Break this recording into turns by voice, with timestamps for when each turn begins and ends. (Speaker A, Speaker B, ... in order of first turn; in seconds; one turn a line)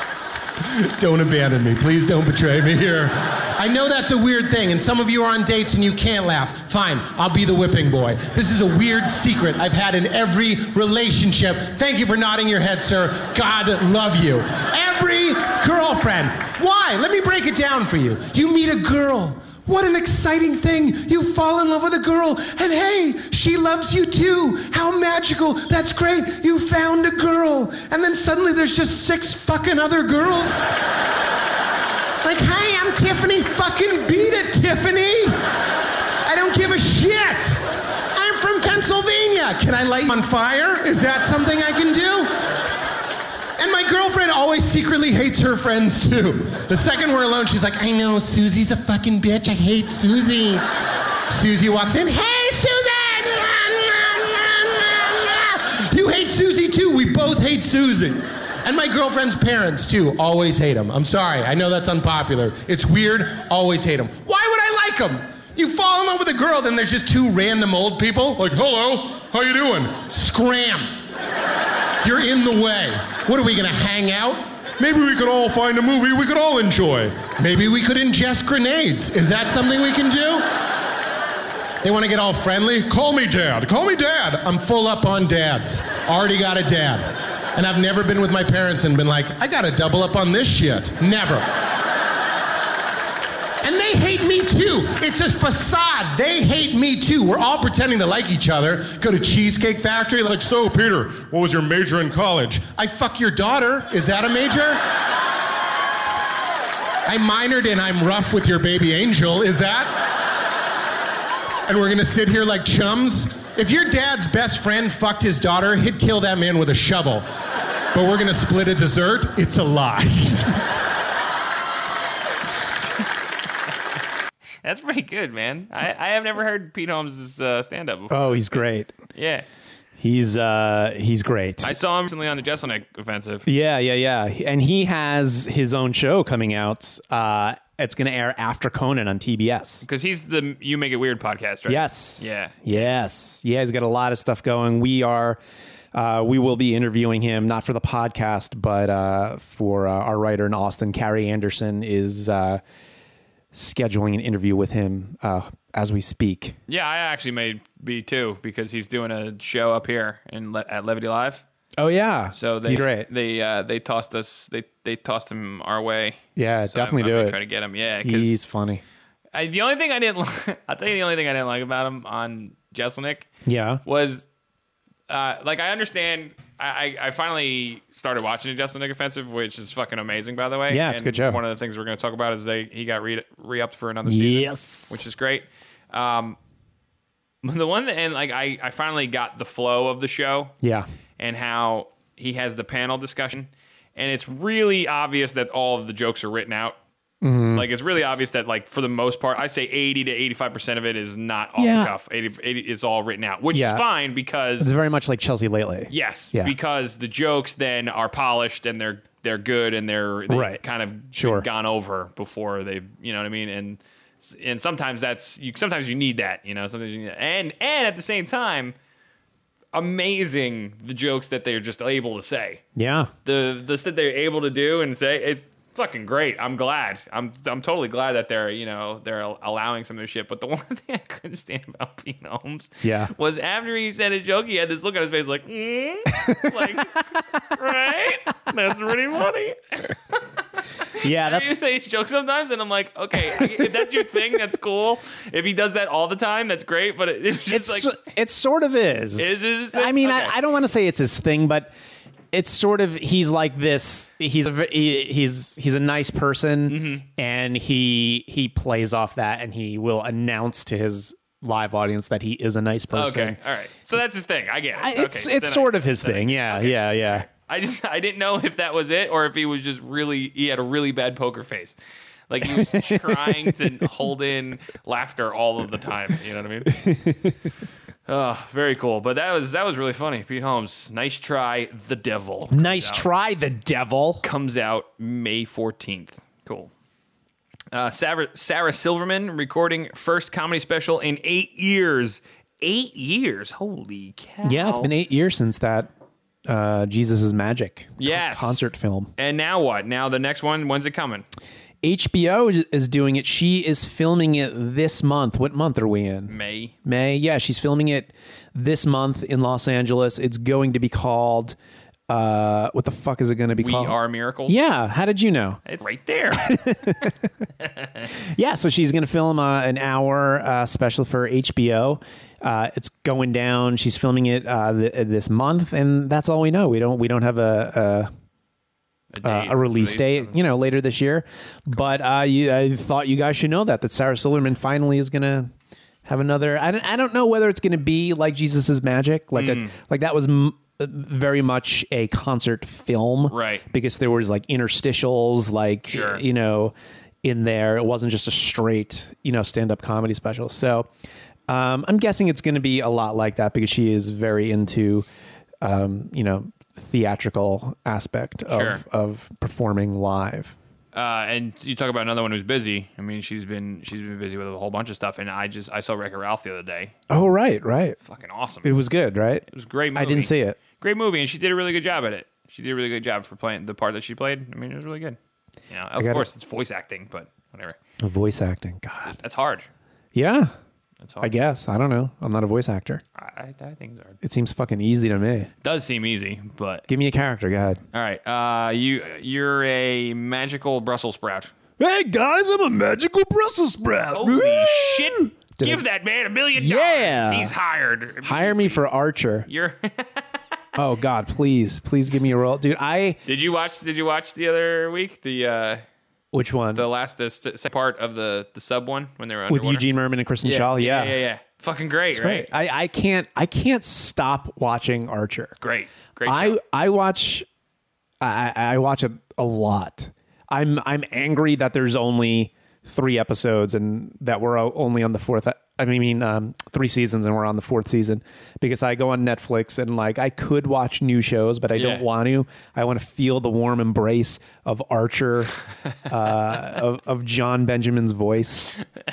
Speaker A: 0.6-30.7
Speaker A: 32.2-35.4
Speaker A: 36.2-42.4
Speaker A: 43.6-50.6
Speaker A: 51.3-71.0
Speaker A: 72.0-80.4
Speaker A: 81.8-91.5
Speaker A: 93.6-104.8
Speaker A: 107.0-110.0
Speaker A: 111.7-117.2
Speaker A: 117.9-120.6
Speaker B: 124.6-128.6
Speaker C: 128.1-128.9
Speaker B: 129.1-129.4
Speaker C: 130.0-131.7
Speaker B: 131.6-133.5
Speaker C: 133.4-139.8
Speaker B: 139.8-142.9
Speaker C: 141.7-145.4
Speaker C: 145.9-152.6
Speaker C: 153.5-156.5
Speaker B: 156.7-161.4
Speaker C: 161.8-163.1
Speaker B: 162.3-168.4
Speaker C: 166.3-167.4
Speaker C: 168.0-168.8
Speaker B: 169.3-173.3
Speaker C: 173.4-173.8
Speaker B: 173.8-174.2
Speaker B: 175.1-186.4
Speaker C: 180.7-181.4
Speaker C: 184.1-185.0
Speaker B: 187.4-190.5
Speaker C: 190.6-190.9
Speaker B: 191.2-196.8
Speaker C: 197.2-197.7
Speaker B: 197.5-204.7
Speaker C: 201.6-201.9
Speaker C: 203.5-203.8
Speaker C: 204.6-206.5
Speaker B: 205.9-218.7
Speaker C: 210.3-211.4
Speaker B: 219.7-222.6
Speaker C: 222.8-223.1
Speaker B: 223.2-240.2
Speaker C: 232.8-233.1
Speaker B: 240.9-248.0
Speaker C: 241.0-241.6
Speaker C: 243.2-244.1
Speaker C: 247.5-251.7
Speaker B: 249.2-250.3
Speaker C: 252.3-263.4
Speaker B: 256.7-257.1
Speaker B: 262.9-271.8
Speaker C: 264.8-267.3
Speaker B: 272.3-276.8
Speaker C: 272.4-273.6
Speaker C: 276.7-277.3
Speaker B: 278.1-283.1
Speaker C: 282.5-284.2
Speaker B: 284.2-286.7
Speaker B: 287.7-294.9
Speaker C: 294.4-295.9
Speaker C: 296.4-299.1
Speaker B: 298.0-298.6
Speaker B: 299.2-301.2
Speaker C: 301.8-311.6
Speaker B: 306.3-306.7
Speaker C: 312.1-313.9
Speaker B: 313.6-314.6
Speaker C: 314.5-315.6
Speaker B: 315.6-316.9
Speaker C: 316.3-317.3
Speaker B: 317.6-318.1
Speaker C: 318.2-328.1
Speaker B: 329.1-330.4
Speaker C: 329.2-335.5
Speaker C: 336.0-350.9
Speaker B: 339.3-339.7
Speaker B: 343.3-343.6
Speaker B: 345.9-346.2
Speaker C: 351.5-355.1
Speaker C: 355.6-360.6
Speaker B: 358.5-358.8
Speaker B: 360.9-366.9
Speaker C: 367.1-368.0
Speaker B: 368.0-368.7
Speaker C: 368.6-370.6
Speaker B: 369.5-375.2
Speaker B: 375.7-377.8
Speaker C: 376.0-376.2
Speaker C: 378.0-379.2
Speaker B: 379.0-379.7
Speaker C: 380.1-380.5
Speaker B: 381.0-381.3
Speaker C: 381.2-383.0
Speaker B: 383.1-384.2
Speaker C: 384.2-385.5
Speaker B: 385.6-386.9
Speaker C: 386.9-387.8
Speaker B: 387.9-391.5
Speaker C: 391.8-395.8
Speaker B: 394.1-398.8
Speaker C: 396.6-397.5
Speaker C: 398.2-399.5
Speaker B: 399.4-400.3
Speaker C: 400.8-403.2
Speaker B: 403.2-405.8
Speaker C: 406.3-406.8
Speaker B: 406.7-409.8
Speaker C: 409.5-411.2
Speaker B: 410.4-412.5
Speaker C: 412.1-415.5
Speaker B: 415.6-416.6
Speaker C: 416.2-417.4
Speaker C: 418.2-438.7
Speaker B: 431.7-432.1